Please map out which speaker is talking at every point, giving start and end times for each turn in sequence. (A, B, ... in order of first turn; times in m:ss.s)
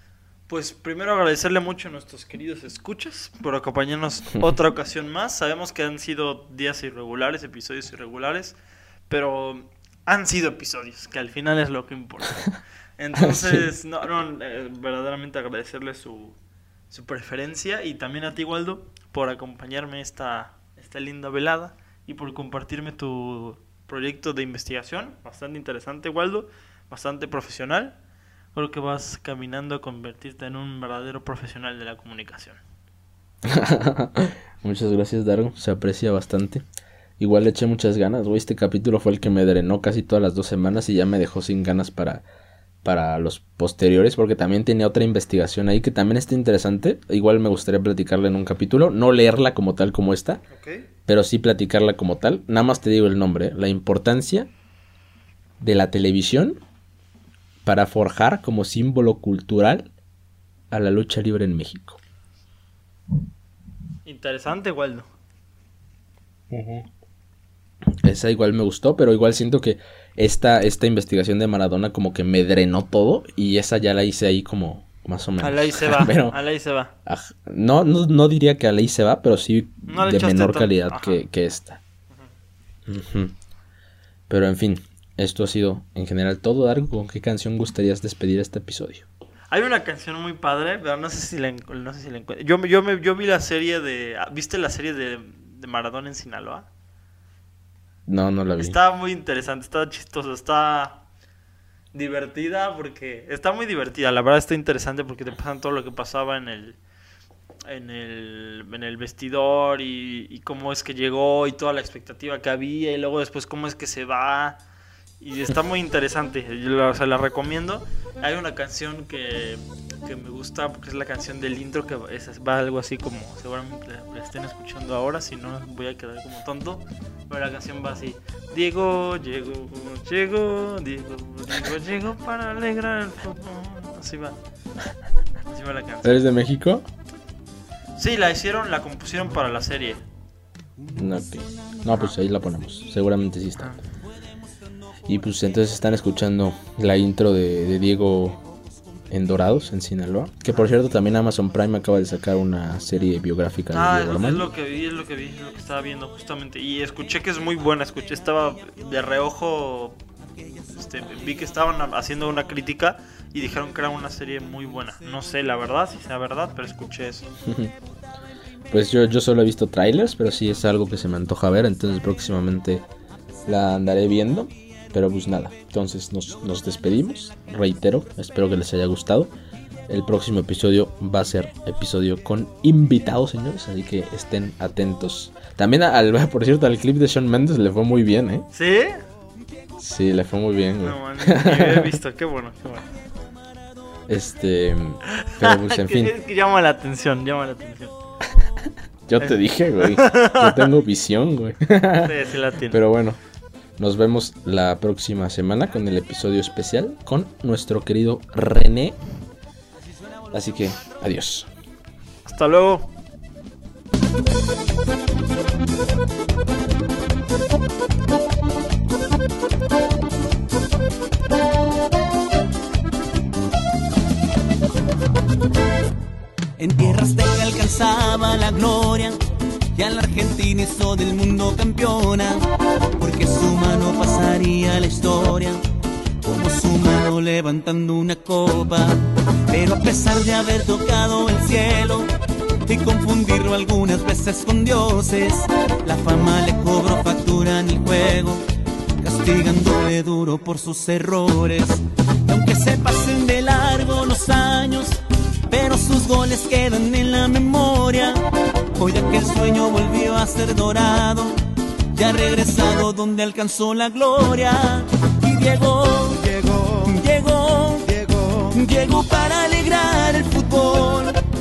0:00.5-0:08.6 A
0:09.1-0:16.4 A
0:13.2-0:13.7 B
0:16.9-0:28.0 A
0:28.5-0:32.6 A
0:33.4-0:36.6 B
0:37.2-0:42.2 B
0:42.8-0:50.4 B
0:50.5-0:50.9 A
0:51.1-0:54.5 B
0:55.6-0:56.6 B
0:57.6-0:59.9 B
1:00.7-1:02.0 B
1:04.0-1:05.1 A
1:06.5-1:06.9 B
1:08.0-1:16.4 B
1:15.4-1:16.9 A
1:17.0-1:21.8 B
1:19.9-1:21.2 A
1:22.9-1:23.3 B
1:24.3-1:29.1 B
1:29.5-1:36.7 A
1:38.1-1:38.8 B
1:38.6-1:41.0 A
1:41.9-1:46.8 A
1:47.6-1:54.6 A
1:55.2-2:14.4 A
2:15.4-2:16.2 A
2:16.0-2:16.8 B
2:18.0-2:20.0 A
2:20.9-2:23.8 B
2:25.1-2:28.4 B
2:29.1-2:34.5 B
2:33.7-2:40.0 A
2:40.4-2:41.0 C
2:40.7-2:47.3 A
2:47.4-2:47.7 B
2:48.7-2:52.8 B
2:53.4-2:59.3 B
2:59.9-3:08.5 B
3:08.5-3:09.0 A
3:09.8-3:12.0 B
3:10.8-3:12.9 A
3:14.1-3:16.1 B
3:15.1-3:17.9 A
3:19.1-3:22.1 B
3:19.2-3:20.7 A
3:22.0-3:22.8 A
3:22.7-3:23.2 B
3:23.8-3:29.0 B
3:30.3-3:31.5 B
3:32.2-3:32.9 A
3:46.6-3:49.2 C
3:49.7-3:52.5 C
3:53.0-3:55.6 C
3:56.2-4:02.1 C
4:02.6-4:08.4 C
4:09.0-4:21.4 C
4:21.9-4:31.2 C